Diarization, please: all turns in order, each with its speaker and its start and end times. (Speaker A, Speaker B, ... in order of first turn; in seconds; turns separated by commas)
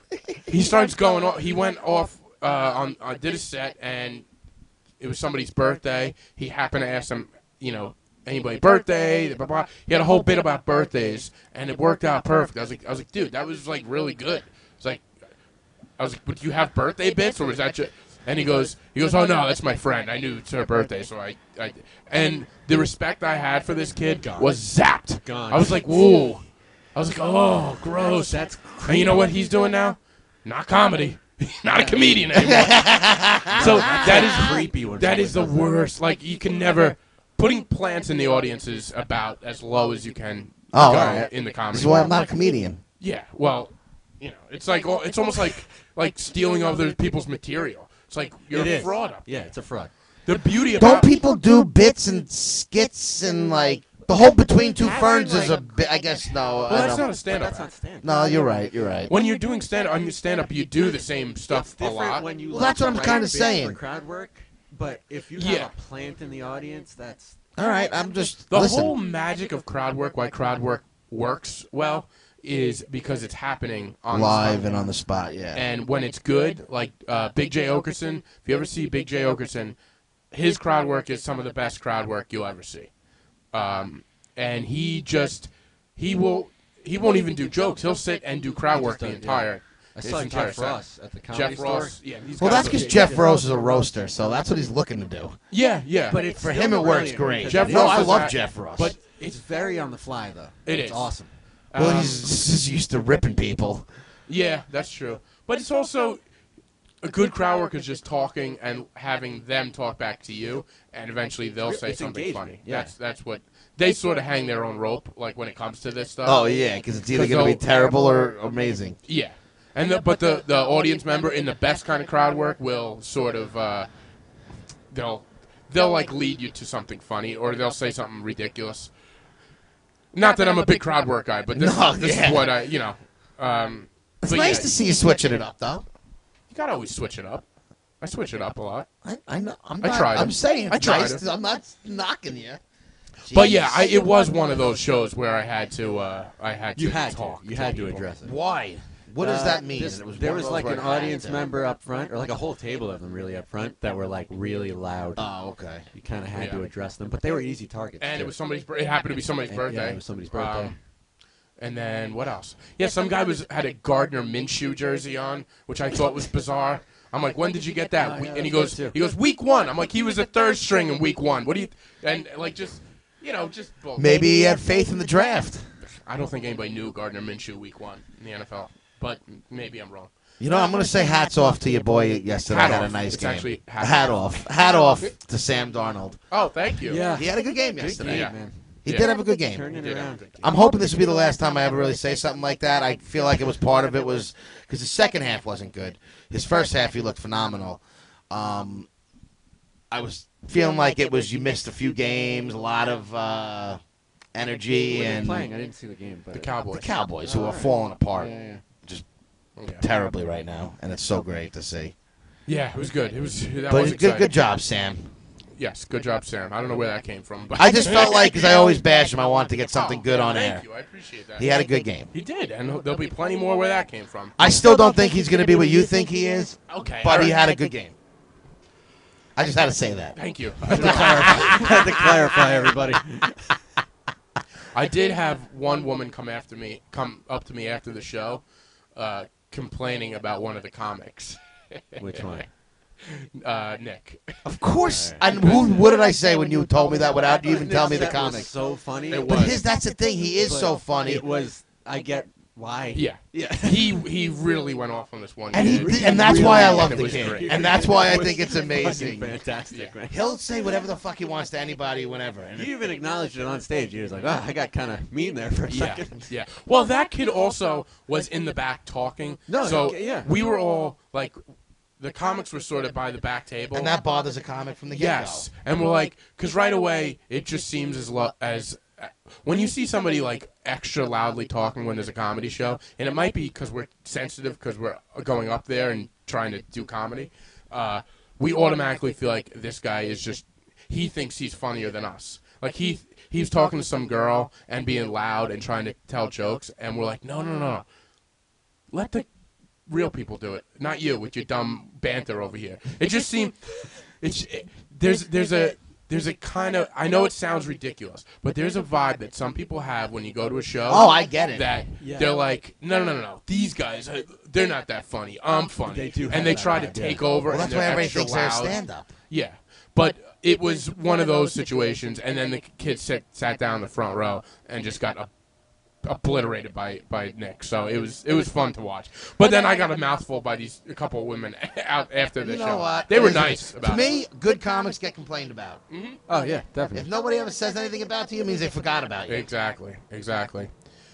Speaker A: 0.5-4.2, Speaker A: 5.0-15.1, Speaker A: 16.0-32.9, Speaker B: 24.2-24.5, Speaker B: 25.2-26.1, Speaker B: 28.0-29.3, Speaker B: 31.7-32.0, Speaker C: 32.3-34.6, Speaker B: 33.5-35.7, Speaker A: 33.5-42.1, Speaker C: 40.7-42.8, Speaker A: 43.0-49.3, Speaker B: 48.5-49.9, Speaker A: 50.2-51.1, Speaker C: 50.8-57.1, Speaker B: 54.8-55.7, Speaker A: 56.7-57.7, Speaker B: 56.8-58.5, Speaker C: 58.0-59.1, Speaker A: 59.1-62.2, Speaker B: 61.5-67.4, Speaker C: 62.5-63.8, Speaker A: 65.3-65.7, Speaker C: 67.6-68.9, Speaker A: 68.5-74.7, Speaker C: 74.1-75.6, Speaker A: 75.5-79.8, Speaker A: 80.3-82.9, Speaker A: 83.5-93.0, Speaker B: 88.7-93.4, Speaker C: 92.4-95.4, Speaker A: 95.5-96.2, Speaker B: 96.1-98.3, Speaker C: 96.3-98.9, Speaker A: 97.5-99.4, Speaker B: 99.2-101.3, Speaker A: 100.7-101.2, Speaker A: 101.7-102.3, Speaker C: 101.8-103.9, Speaker A: 104.3-106.2, Speaker A: 107.0-116.5, Speaker B: 111.6-112.9, Speaker C: 116.2-119.0, Speaker A: 117.1-117.6, Speaker A: 119.0-123.9, Speaker A: 124.9-128.9, Speaker A: 130.1-134.7, Speaker C: 131.5-132.5, Speaker C: 134.2-135.8, Speaker A: 136.5-137.4, Speaker A: 138.0-138.9, Speaker C: 139.0-142.6, Speaker A: 139.8-141.2, Speaker C: 143.2-143.9, Speaker A: 143.3-148.1, Speaker B: 146.8-148.3, Speaker C: 148.2-151.5, Speaker B: 149.2-155.3, Speaker C: 155.2-155.8, Speaker B: 155.9-158.3, Speaker A: 156.3-156.6, Speaker A: 158.0-160.7, Speaker B: 159.5-160.7, Speaker A: 161.6-174.3, Speaker B: 168.0-168.9, Speaker C: 173.9-175.7, Speaker A: 175.8-180.1, Speaker C: 180.4-186.2, Speaker A: 182.5-184.1, Speaker A: 186.3-187.0, Speaker B: 186.8-188.7, Speaker C: 187.1-188.3, Speaker A: 188.0-189.1, Speaker C: 188.8-189.7, Speaker B: 189.5-190.5, Speaker A: 189.7-190.3, Speaker C: 190.4-198.9, Speaker C: 199.9-203.8, Speaker C: 204.3-205.5, Speaker B: 204.9-206.5, Speaker A: 206.3-206.9, Speaker C: 206.7-209.1, Speaker B: 207.2-208.6, Speaker A: 209.6-209.8, Speaker C: 209.8-211.9, Speaker A: 212.5-214.3, Speaker C: 213.7-215.1, Speaker A: 215.6-218.6, Speaker C: 217.6-220.7, Speaker A: 219.7-221.5, Speaker C: 221.4-222.1, Speaker A: 222.1-224.4, Speaker C: 224.4-227.9, Speaker A: 226.7-227.4, Speaker C: 229.3-232.1, Speaker A: 230.2-231.7, Speaker B: 230.7-233.5, Speaker A: 234.7-238.4, Speaker A: 238.9-242.4, Speaker B: 242.0-242.5, Speaker A: 243.0-244.3, Speaker C: 244.4-248.5, Speaker B: 244.9-245.2, Speaker A: 245.2-245.8, Speaker B: 247.4-249.6, Speaker A: 249.1-249.6, Speaker C: 249.3-251.2, Speaker B: 250.4-254.0, Speaker A: 252.9-257.6, Speaker C: 255.5-259.4, Speaker B: 255.6-260.2, Speaker C: 260.1-262.7, Speaker B: 262.6-266.3, Speaker A: 265.7-271.4, Speaker B: 269.5-270.3, Speaker A: 272.0-273.9, Speaker C: 273.7-275.5, Speaker A: 274.9-297.8, Speaker A: 298.9-299.3, Speaker A: 299.9-325.3, Speaker C: 310.9-311.7, Speaker B: 312.0-312.3, Speaker B: 315.9-317.2, Speaker C: 317.5-319.1, Speaker A: 326.0-334.1, Speaker C: 332.4-335.8, Speaker A: 335.9-336.2, Speaker B: 336.3-337.1, Speaker C: 336.9-339.5, Speaker A: 339.3-340.7